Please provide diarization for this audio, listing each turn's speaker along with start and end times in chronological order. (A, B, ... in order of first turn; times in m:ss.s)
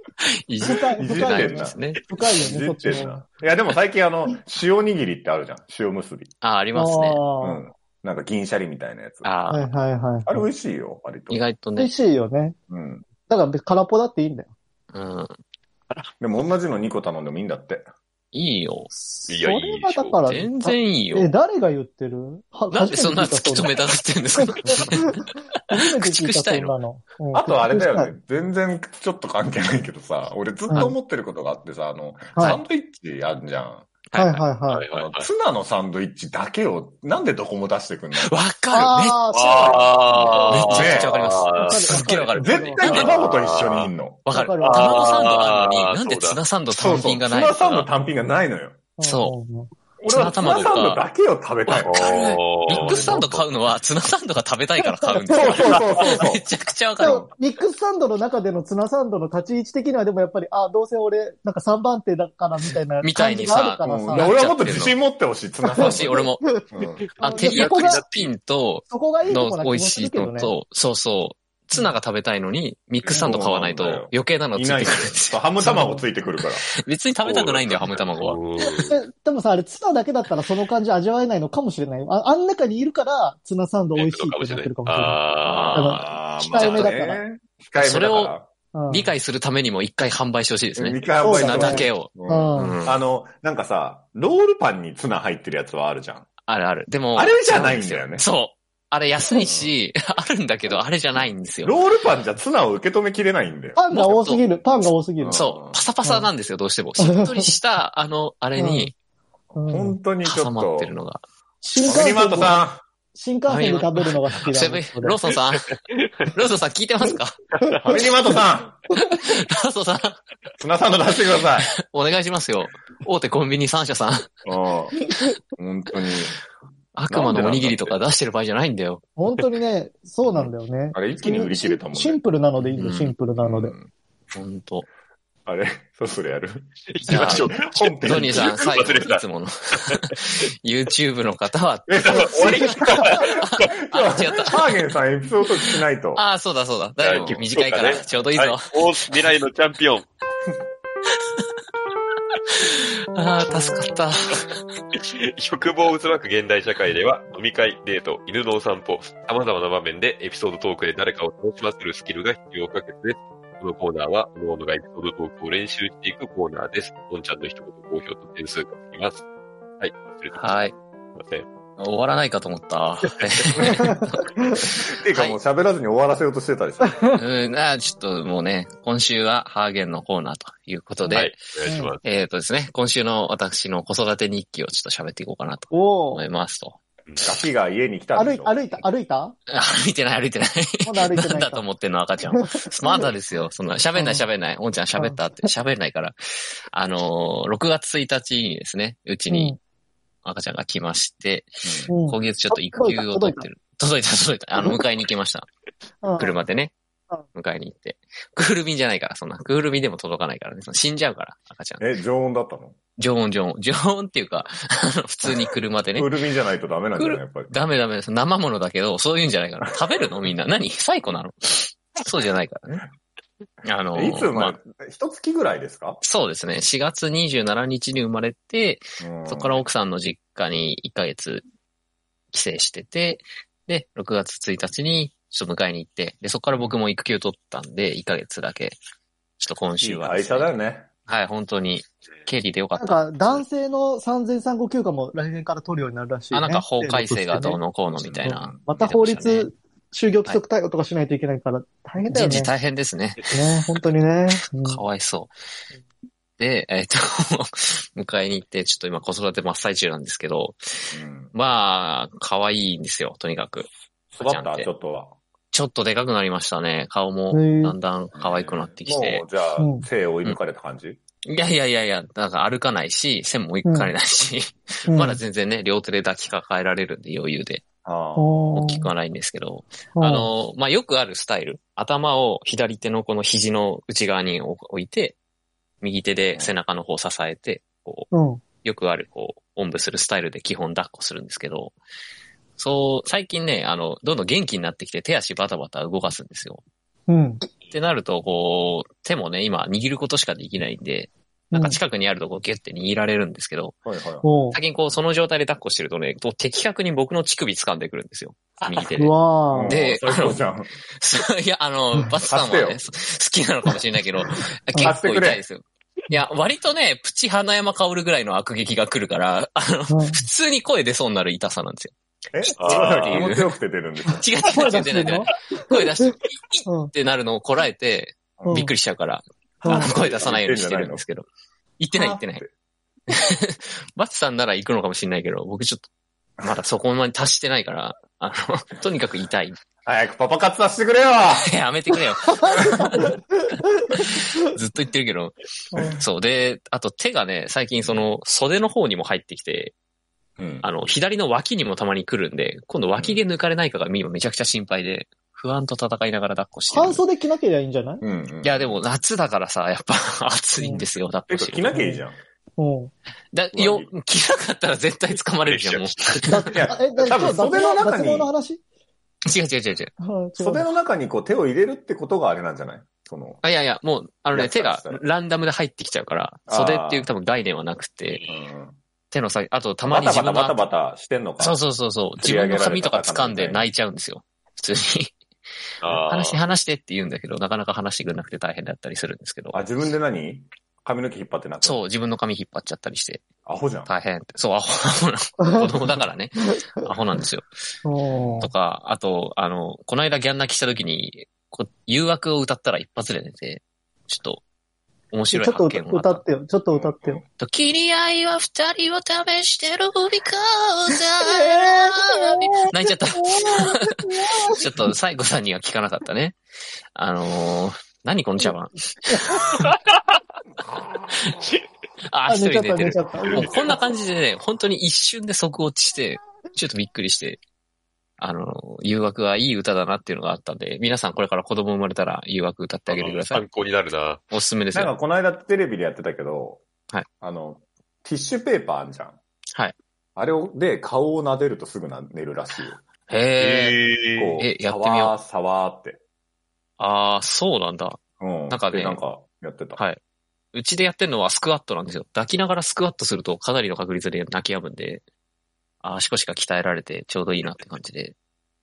0:00.2-0:02.0 A
0:00.6-0:03.2 B
0:00.9-0:06.3 C
0:06.4-0:07.2 A
0:06.7-0:07.6 B
0:07.4-0:09.3 C
0:09.2-0:09.7 A
0:09.5-0:10.5 B
0:10.3-0:11.5 C
0:11.3-0:11.9 A
0:11.8-0:12.6 B
0:12.7-0:13.1 C
0:13.2-0:14.5 B
0:14.9-0:15.3 A
0:16.2-0:17.9 C
0:18.3-0:18.9 A
0:19.0-0:23.8 B
0:19.3-0:20.3 D
0:20.3-0:21.4 A
0:22.7-0:26.8 A
0:24.4-0:28.1 B
0:27.3-0:33.9 C
0:30.7-0:30.9 B
0:32.4-0:32.6 B
0:34.1-0:34.5 A
0:34.2-0:34.8 B
0:34.7-0:35.3 D
0:34.9-0:38.3 C
0:38.2-0:39.3 A
0:38.7-0:41.1 B
0:39.3-0:42.2 D
0:39.6-0:40.0 C
0:40.1-0:43.2 A
0:40.7-0:41.1 C
0:41.6-0:43.3 B
0:42.3-0:44.3 C
0:42.8-0:43.9 D
0:44.3-0:47.9 A
0:44.3-0:45.4 B
0:44.6-0:46.4 D
0:46.8-0:48.8 C
0:49.0-0:50.7 B
0:49.0-0:49.4 A
0:50.0-0:52.1 C
0:50.1-0:51.0 A
0:51.7-0:57.3 A
0:51.8-0:53.5 D
0:52.8-0:53.2 C
0:54.8-0:55.7 B
0:55.3-0:56.4 C
0:55.7-0:56.1 D
0:57.0-1:04.4 B
1:03.0-1:05.0 A
1:03.8-1:06.2 C
1:05.6-1:08.0 B
1:05.8-1:06.4 A
1:06.8-1:07.0 C
1:07.1-1:08.3 D
1:07.3-1:15.8 A
1:08.9-1:10.5 B
1:13.0-1:13.3 D
1:13.1-1:16.6 C
1:15.7-1:16.0 B
1:16.4-1:18.4 A
1:17.2-1:19.0 D
1:18.8-1:27.2 B
1:24.0-1:26.9 D
1:25.4-1:26.9 A
1:26.0-1:28.5 C
1:27.8-1:28.3 A
1:28.7-1:29.1 B
1:28.9-1:33.0 A
1:30.8-1:36.3 C
1:31.2-1:32.8 B
1:36.5-1:41.8 A
1:37.2-1:38.3 C
1:39.4-1:39.8 C
1:41.2-1:43.8 C
1:43.8-1:45.4 B
1:43.9-1:44.4 A
1:45.2-1:45.8 C
1:45.3-1:48.9 A
1:46.0-1:46.3 B
1:47.0-1:47.5 B
1:48.6-1:48.9 B
1:49.6-1:50.0 B
1:49.7-1:51.0 C
1:50.2-1:51.2 A
1:51.6-1:55.2 B
1:51.8-1:52.8 C
1:53.5-1:55.7 A
1:55.7-1:56.3 D
1:56.3-1:57.4 A
1:57.8-1:58.8 C
1:59.0-2:00.2 A
2:00.6-2:01.7 C
2:01.6-2:04.3 A
2:04.5-2:05.0 C
2:05.0-2:05.3 B
2:05.6-2:06.3 C
2:07.0-2:09.1 A
2:07.1-2:08.0 C
2:09.2-2:13.8 B
2:10.3-2:10.5 A
2:10.9-2:12.2 C
2:12.6-2:13.2 A
2:13.4-2:13.9 C
2:14.3-2:14.9 A
2:15.5-2:19.0 C
2:16.9-2:20.2 D
2:17.0-2:17.5 A
2:18.0-2:22.0 A
2:21.9-2:26.2 C
2:22.1-2:23.7 D
2:22.3-2:23.1 B
2:22.6-2:24.7 A
2:26.2-2:28.7 A
2:27.0-2:30.1 D
2:27.1-2:27.4 C
2:31.1-2:31.5 A
2:32.5-2:34.6 A
2:34.9-2:49.2 D
2:49.8-2:50.6 D
2:50.3-2:50.7 A
2:51.2-2:51.5 D
2:51.8-2:54.3 A
2:53.7-2:54.5 B
2:54.7-2:57.0 C
2:55.1-2:55.4 A
2:56.8-2:57.2 B
2:57.1-3:01.3 A
3:01.0-3:02.0 B
3:01.1-3:02.0 D
3:02.0-3:06.8 A
3:05.7-3:06.2 B
3:07.1-3:07.3 D
3:07.2-3:08.6 C
3:08.2-3:09.4 B
3:09.5-3:16.2 A
3:10.8-3:11.6 B
3:12.3-3:13.0 B
3:14.0-3:14.3 B
3:15.0-3:15.5 B
3:16.7-3:19.6 A
3:19.3-3:19.6 B
3:20.2-3:25.5 A
3:21.6-3:21.9 C
3:21.9-3:23.5 B
3:26.0-3:26.4 B
3:26.2-3:26.7 A
3:27.3-3:31.9 A
3:31.8-3:32.8 C
3:33.0-3:36.1 A
3:36.0-3:37.5 C
3:37.0-3:42.9 A
3:43.6-3:44.6 A
3:43.9-3:46.0 C
3:46.0-3:51.4 A
3:49.0-3:49.6 C
3:52.3-3:58.8 A
3:59.4-4:00.5 A
3:59.8-4:00.9 C
4:01.1-4:03.4 A
4:02.8-4:07.6 B
4:06.3-4:09.5 A
4:07.9-4:08.6 C
4:08.2-4:12.5 B
4:12.0-4:13.2 A
4:13.3-4:14.8 B
4:14.3-4:15.3 A
4:16.4-4:24.7 A
4:20.9-4:21.3 C
4:24.1-4:25.1 C
4:25.5-4:29.2 A
4:27.3-4:27.8 B
4:28.2-4:31.0 C
4:29.6-4:29.9 B
4:31.3-4:37.6 A
4:33.6-4:33.9 B
4:34.9-4:35.2 B
4:37.8-4:38.6 C
4:38.2-4:38.9 B
4:38.5-4:45.2 A
4:40.0-4:40.3 B
4:45.8-4:48.1 A
4:48.1-4:48.4 B
4:48.6-4:51.8 A
4:52.6-4:56.6 A
4:57.1-4:57.5 B
4:57.7-5:03.8 A
5:01.5-5:01.8 B
5:03.9-5:04.3 C
5:04.2-5:04.6 B
5:04.5-5:09.1 A
5:08.8-5:09.8 B
5:09.5-5:10.7 C
5:09.7-5:10.4 A
5:11.0-5:21.9 A
5:12.2-5:12.9 C
5:14.8-5:15.4 C
5:19.9-5:20.3 B
5:22.3-5:24.2 C
5:22.6-5:23.5 A
5:22.6-5:23.3 D
5:24.1-5:31.3 A
5:24.4-5:26.1 B
5:26.6-5:26.9 B
5:28.5-5:28.7 B
5:29.6-5:29.9 B
5:29.8-5:31.0 C
5:31.8-5:32.4 A
5:32.0-5:32.5 C
5:33.1-5:35.9 A
5:36.4-5:39.6 A
5:39.8-5:41.5 C
5:41.4-5:43.2 A
5:42.2-5:44.5 B
5:44.0-5:45.4 A
5:45.7-5:46.0 B
5:46.0-5:49.7 A
5:50.4-5:50.7 C
5:50.6-5:57.0 A
5:53.0-5:53.2 C
5:56.7-5:58.0 B
5:58.0-5:58.8 C
5:58.4-6:01.8 A
6:00.6-6:00.9 B
6:01.3-6:02.2 C
6:01.7-6:02.0 B
6:02.6-6:02.9 B
6:03.3-6:06.5 A
6:03.5-6:03.9 C
6:05.5-6:06.4 D
6:06.3-6:08.6 B
6:06.5-6:08.3 C
6:09.3-6:09.9 A
6:10.0-6:10.7 B
6:10.4-6:13.4 C
6:13.4-6:18.2 A
6:14.3-6:15.0 C
6:16.5-6:17.1 C
6:18.1-6:18.5 D
6:18.3-6:18.8 C
6:19.1-6:20.7 A
6:19.8-6:21.6 C
6:21.4-6:25.2 A
6:22.2-6:23.7 C
6:25.8-6:26.4 D
6:26.0-6:29.6 A
6:29.5-6:31.8 C
6:31.6-6:33.2 A
6:33.5-6:33.9 C
6:33.9-6:37.5 A
6:35.4-6:36.9 B
6:37.8-6:38.5 B
6:38.4-6:44.4 A
6:45.1-6:46.2 A
6:45.3-6:47.2 B
6:46.7-6:47.3 C
6:47.4-6:56.4 A
6:50.9-6:55.0 B
6:57.0-6:59.7 A
6:59.0-6:59.4 B
6:59.4-7:00.2 D
7:02.1-7:07.4 A
7:02.3-7:03.8 B
7:03.3-7:03.8 D
7:08.2-7:13.4 A
7:12.9-7:14.3 D
7:14.3-7:15.0 A
7:14.7-7:16.6 C
7:17.2-7:19.2 C
7:20.2-7:22.8 C
7:23.1-7:23.8 A
7:23.4-7:24.4 D
7:24.2-7:26.0 C
7:24.4-7:25.2 A
7:26.8-7:28.0 A
7:28.2-7:29.8 C
7:28.5-7:29.0 A
7:30.5-7:35.0 A
7:35.8-7:38.2 A